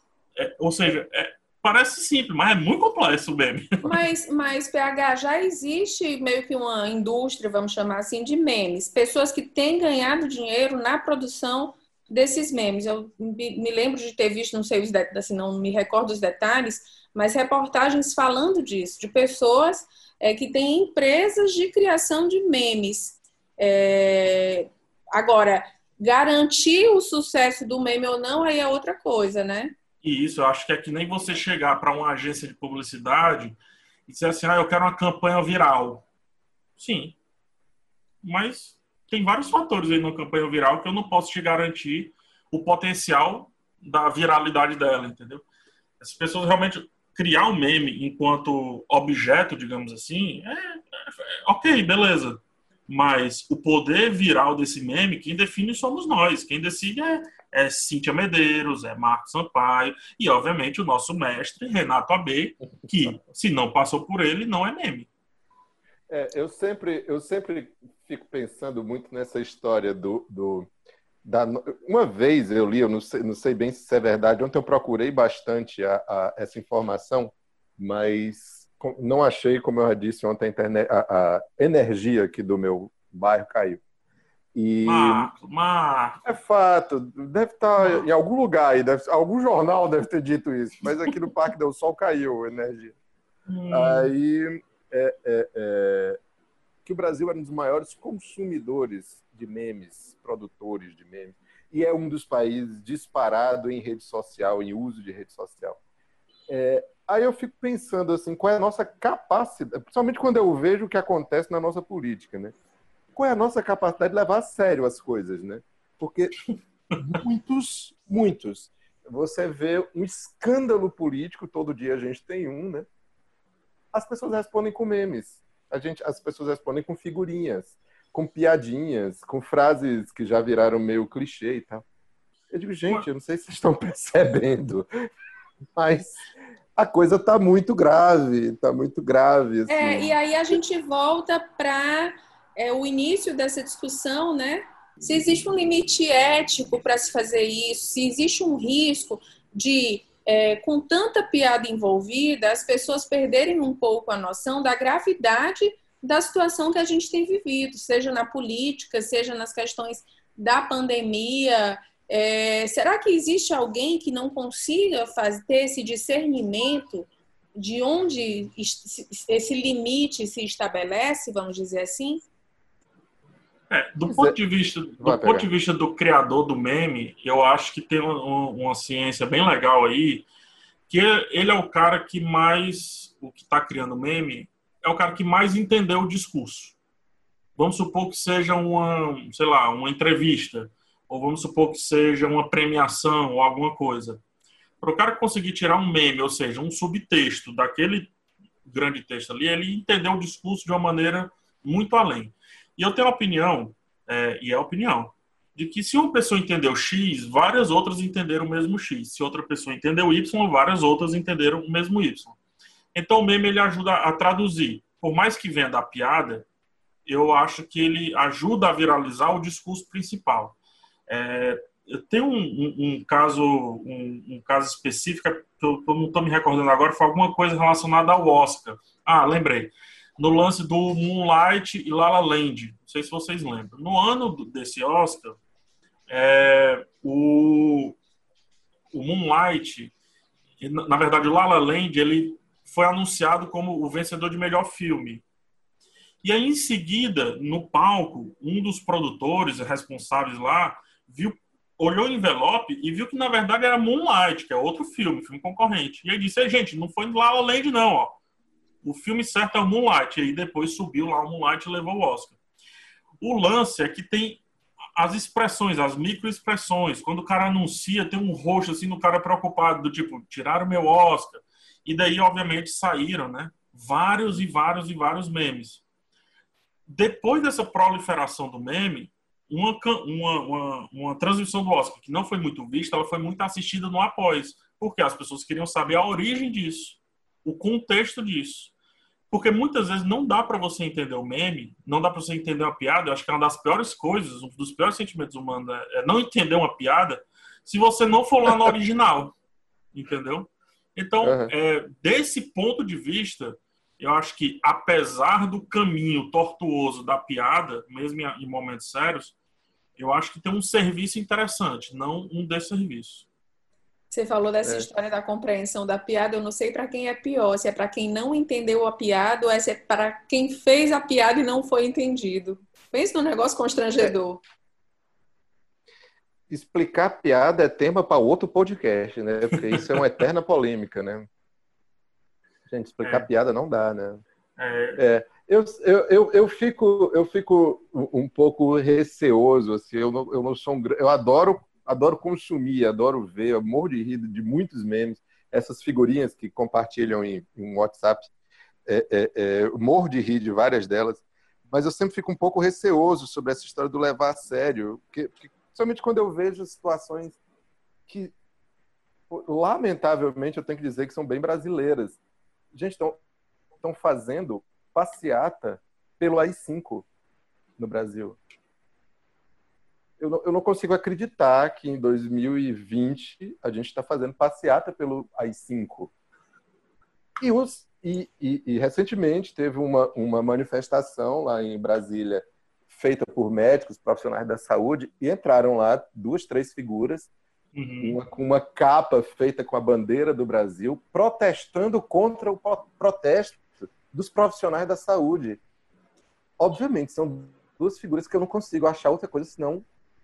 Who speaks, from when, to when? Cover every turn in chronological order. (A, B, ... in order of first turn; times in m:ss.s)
0:00.4-0:03.9 A
0:03.8-0:29.7 B
0:30.0-0:36.0 A
0:36.8-0:37.1 A
0:38.2-0:45.4 A
0:46.0-1:05.1 A
1:06.1-1:10.7 C
1:11.2-1:23.8 C
1:24.5-1:25.3 C
1:24.8-1:26.2 A
1:26.2-1:33.0 C
1:27.8-1:28.0 A
1:33.5-1:34.1 A
1:33.7-1:36.2 C
1:36.8-1:45.8 C
1:46.5-1:52.5 C
1:53.1-1:56.3 C
1:57.0-2:02.9 C
2:03.9-2:11.8 C
2:12.5-2:14.9 C
2:15.8-2:20.1 C
2:19.7-2:52.2 B
2:53.7-3:00.2 A
2:54.1-2:54.4 C
2:55.0-2:55.5 C
3:00.9-3:06.8 A
3:07.6-3:14.2 A
3:14.8-3:18.1 A
3:18.6-3:32.4 A
3:32.9-3:36.4 A
3:37.0-3:40.6 A
3:41.1-3:55.4 A
3:56.1-3:58.0 A
3:58.9-3:59.9 A
4:00.6-4:05.2 A
4:06.2-4:18.2 A
4:18.8-4:22.4 A
4:23.2-4:24.4 A
4:24.9-4:35.8 A
4:36.9-4:48.7 A
4:49.3-4:59.3 A
4:59.9-5:09.4 A
5:01.2-5:01.5 C
5:10.0-5:13.3 A
5:14.1-5:24.4 B
5:26.5-5:31.3 C
5:32.7-5:34.2 C
5:33.0-5:33.3 A
5:34.6-5:35.0 A
5:35.0-5:48.3 C
5:48.9-5:57.4 C
5:58.1-5:58.3 C
5:59.3-6:02.2 C
6:02.7-6:03.2 C
6:03.8-6:07.1 C
6:07.8-6:08.4 C
6:10.2-6:16.1 C
6:17.4-6:27.3 C
6:27.7-6:28.2 A
6:28.0-6:35.6 C
6:36.6-6:39.8 C